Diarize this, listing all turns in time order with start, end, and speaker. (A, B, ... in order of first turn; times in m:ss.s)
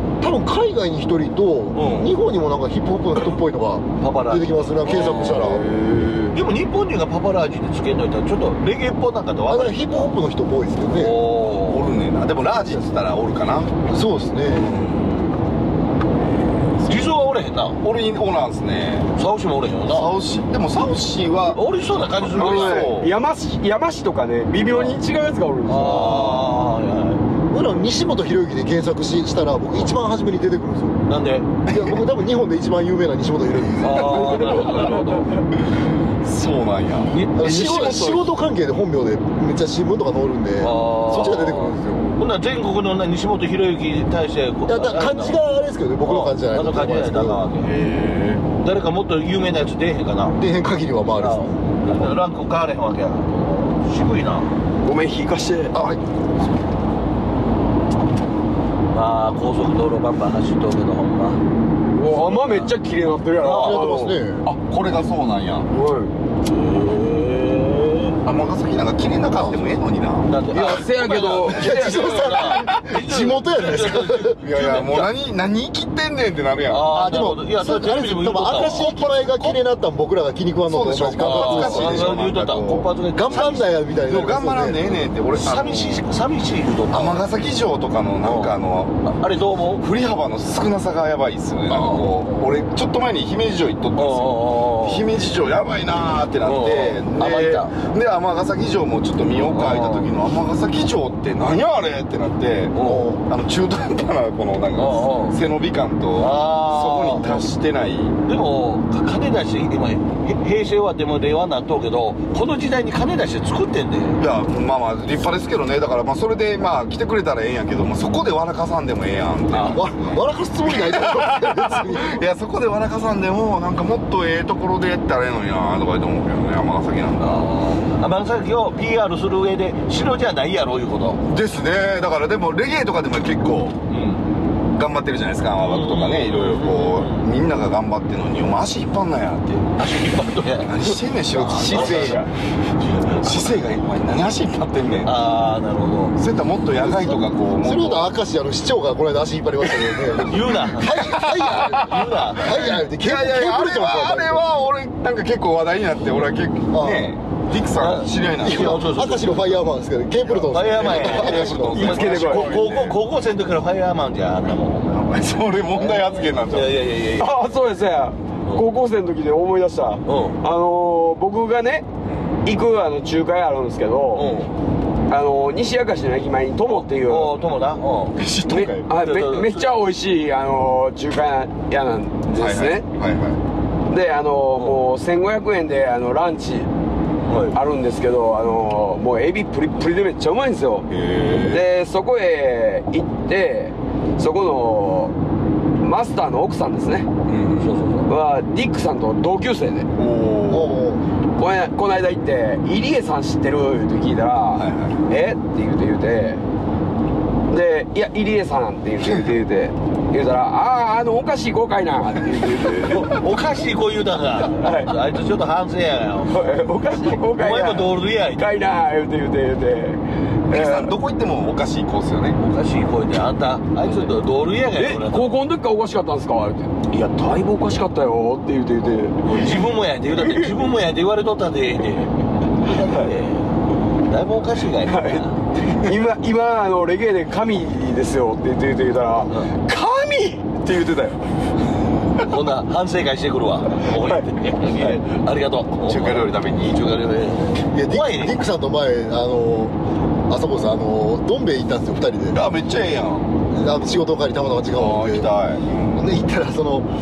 0:00.2-0:05.7 A
0:01.7-0:02.1 B
0:01.8-0:02.1 C
0:04.0-0:05.6 B
0:05.3-0:06.3 D
0:06.3-0:10.1 B
0:09.5-0:11.2 A
0:10.9-0:11.9 B
0:11.4-0:13.7 C
0:13.9-0:14.9 A
0:14.5-0:15.1 C
0:16.8-0:17.8 B
0:17.8-0:19.1 C
0:19.2-0:20.1 B
0:19.9-0:23.1 C
0:21.5-0:23.0 B
0:22.4-0:26.5 D
0:25.7-0:27.2 B
0:27.5-0:31.0 A
0:31.1-0:31.5 B
0:31.7-0:32.0 C
0:31.7-0:34.7 A
0:33.8-0:35.4 B
0:36.2-0:38.4 C
0:37.1-0:37.9 B
0:37.4-0:42.2 A
0:40.6-0:45.4 B
0:44.7-0:47.4 A
0:46.0-0:47.7 B
0:47.7-0:48.4 C
0:48.6-0:50.4 B
0:50.4-0:51.6 A
0:51.2-0:54.5 B
0:54.8-0:55.8 D
0:55.7-0:56.0 A
0:58.9-1:01.4 B
1:01.9-1:04.2 D
1:02.1-1:02.7 B
1:03.4-1:04.0 B
1:03.5-1:04.5 A
1:04.5-1:05.7 C
1:05.7-1:06.1 D
1:06.4-1:08.2 B
1:08.2-1:10.4 C
1:10.3-1:15.1 B
1:10.5-1:12.2 D
1:11.5-1:14.4 A
1:14.4-1:16.9 C
1:16.7-1:19.6 B
1:16.9-1:22.2 A
1:20.7-1:22.9 C
1:21.2-1:23.8 B
1:23.2-1:25.1 A
1:24.0-1:26.1 C
1:25.4-1:27.3 B
1:26.9-1:29.0 C
1:28.2-1:29.8 B
1:29.8-1:48.2 C
1:31.7-1:32.2 B
1:34.0-1:35.1 B
1:36.4-1:37.8 B
1:39.4-1:40.1 B
1:42.7-1:43.2 B
1:44.8-1:45.4 B
1:46.2-1:47.5 B
1:48.3-1:54.2 B
1:54.2-2:07.5 C
1:59.5-1:59.8 B
1:59.7-2:02.2 A
2:07.2-2:11.2 B
2:11.3-2:13.8 C
2:13.9-2:14.2 B
2:14.8-2:19.7 C
2:15.6-2:17.2 B
2:19.8-2:23.6 B
2:20.6-2:22.3 C
2:21.5-2:22.3 D
2:23.1-2:25.2 C
2:25.0-2:26.2 B
2:26.2-2:28.1 C
2:26.8-2:34.4 A
2:30.3-2:31.1 B
2:30.8-2:38.8 C
2:31.7-2:32.8 B
2:36.7-2:37.1 A
2:37.6-2:39.6 B
2:38.4-2:41.9 A
2:40.4-2:43.0 C
2:40.4-2:45.0 B
2:41.6-2:42.6 D
2:44.9-2:46.8 C
2:45.7-2:47.4 B
2:47.2-2:51.9 D
2:50.1-2:50.4 B
2:52.4-2:54.3 D
2:54.2-2:54.5 B
2:54.2-2:54.5 C
2:55.1-2:57.4 D
2:56.7-2:58.2 B
2:58.2-2:58.9 C
2:58.5-3:02.8 D
2:58.9-2:59.8 B
3:02.4-3:03.4 C
3:03.9-3:06.7 D
3:04.6-3:04.8 B
3:07.3-3:07.6 B
3:07.5-3:15.1 D
3:10.9-3:11.7 C
3:15.8-3:17.1 D
3:17.3-3:17.7 C
3:17.6-3:18.1 B
3:18.1-3:19.9 D
3:20.0-3:20.8 C
3:20.5-3:21.0 A
3:21.4-3:26.4 D
3:24.6-3:25.0 C
3:27.5-3:33.2 D
3:32.9-3:38.5 B
3:34.5-3:35.1 D
3:36.3-3:40.9 D
3:40.5-3:42.4 C
3:42.4-3:45.4 B
3:44.8-3:50.6 D
3:49.2-3:55.4 B
3:52.8-3:53.1 D
3:54.9-4:01.2 D
4:02.2-4:08.4 B
4:04.0-4:04.2 D
4:05.9-4:06.8 C
4:07.7-4:09.8 A
4:10.3-4:12.4 A
4:12.3-4:13.3 C
4:13.5-4:15.3 A
4:14.7-4:16.1 C
4:16.0-4:16.9 A